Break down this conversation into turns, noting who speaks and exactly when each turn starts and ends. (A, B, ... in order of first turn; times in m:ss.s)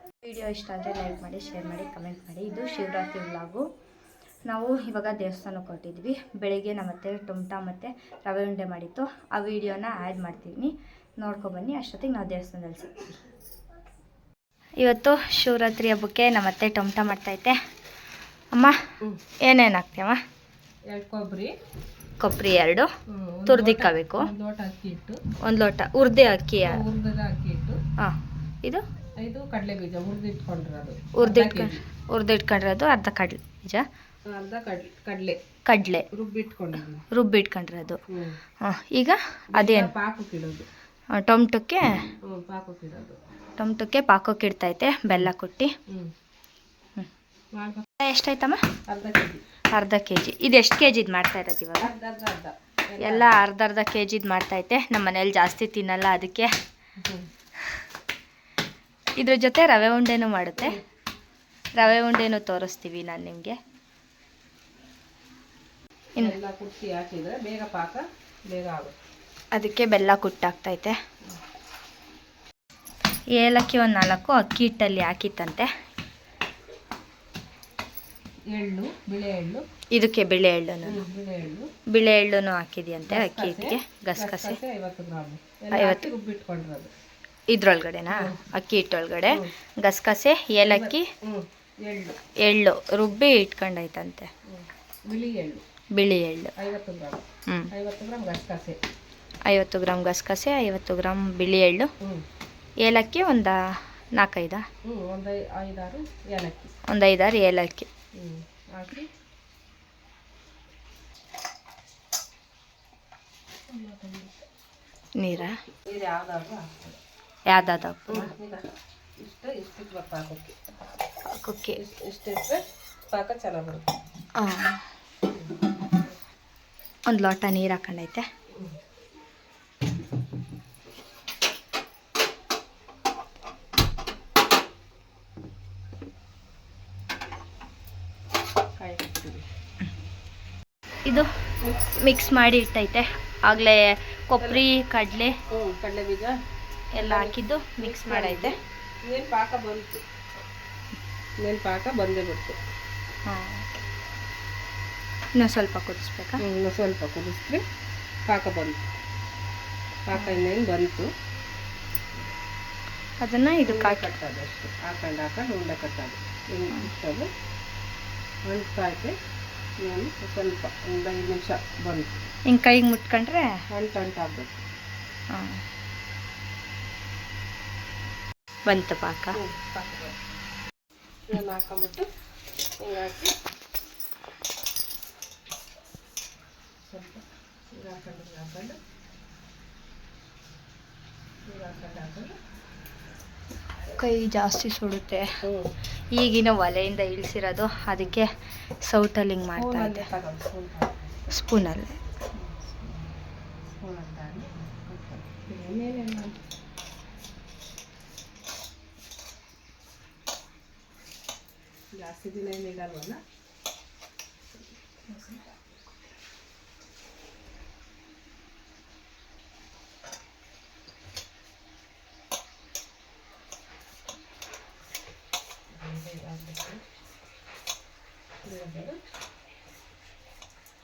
0:00.2-0:03.6 A
0:04.5-0:13.0 A
0:14.8-0:17.6 A
0:19.4-0:20.2 A
0:20.9-0:21.5 B
0:22.2-0:22.9 A
0:23.1-0:25.2 B
0:23.5-0:24.3 A
0:25.4-0:26.8 A
0:26.6-0:27.8 B
0:28.0-0:28.8 A
0:29.2-0:31.8 B
0:31.2-0:33.8 A
0:34.3-0:35.4 B
0:35.7-0:36.1 A
0:36.1-0:37.0 B
0:37.1-0:38.0 A
0:38.1-0:38.4 B
0:38.6-0:39.9 A
0:39.5-0:40.7 B
0:41.1-0:41.9 A
0:42.3-0:43.2 B
0:43.6-0:45.7 A
0:47.6-0:47.9 B
0:48.0-0:48.6 A
0:48.9-0:49.4 B
0:49.7-0:51.9 A
0:51.8-0:53.3 B
0:53.0-0:56.5 A
0:57.0-0:57.3 B
0:59.2-1:00.8 A
1:01.8-1:03.6 A
1:06.2-1:08.9 B
1:09.5-1:11.0 A
1:13.3-1:15.7 A
1:18.5-1:19.6 B
1:19.9-1:21.0 A
1:20.9-1:21.7 B
1:21.9-1:24.6 A
1:23.1-1:26.9 B
1:25.7-1:26.1 A
1:27.5-1:31.1 A
1:30.7-1:32.2 B
1:32.4-1:34.3 A
1:34.5-1:35.6 B
1:36.0-1:36.5 A
1:36.6-1:38.8 B
1:39.5-1:41.9 A
1:42.8-1:43.6 A
1:44.2-1:44.7 A
1:44.9-1:46.7 B
1:46.9-1:47.9 A
1:48.2-1:49.1 B
1:53.7-1:54.4 B
1:55.2-1:55.5 A
1:55.9-1:57.0 B
1:57.5-1:58.3 A
1:58.1-1:58.6 B
1:59.2-2:00.6 B
2:01.3-2:01.8 A
2:01.8-2:03.9 B
2:04.4-2:04.8 A
2:07.1-2:08.3 A
2:18.8-2:19.4 B
2:21.9-2:25.3 A
2:25.5-2:26.4 B
2:26.9-2:28.6 A
2:27.0-2:30.0 B
2:31.4-2:32.6 B
2:33.3-2:33.6 A
2:35.4-2:36.4 A
2:36.4-2:37.6 B
2:38.3-2:38.8 B
2:40.1-2:41.1 B
2:40.2-2:40.4 A
2:43.2-2:44.1 A
2:43.6-2:47.3 B
2:48.5-2:49.2 B
2:49.8-2:52.1 B
2:52.5-2:53.5 A
2:53.7-2:54.5 B
2:55.3-2:55.6 A
2:58.7-2:59.4 A
2:59.4-3:00.2 B
3:01.3-3:02.1 B
3:02.8-3:03.3 B
3:06.9-3:08.8 B
3:11.5-3:12.4 B
3:14.0-3:15.3 A
3:15.5-3:15.7 B
3:16.1-3:18.3 A
3:18.8-3:20.1 A
3:19.5-3:21.2 B
3:21.3-3:22.0 A
3:22.4-3:23.0 B
3:23.8-3:26.3 B
3:31.9-3:33.2 B
3:35.1-3:35.4 A
3:45.7-3:46.8 B
3:48.4-3:49.0 B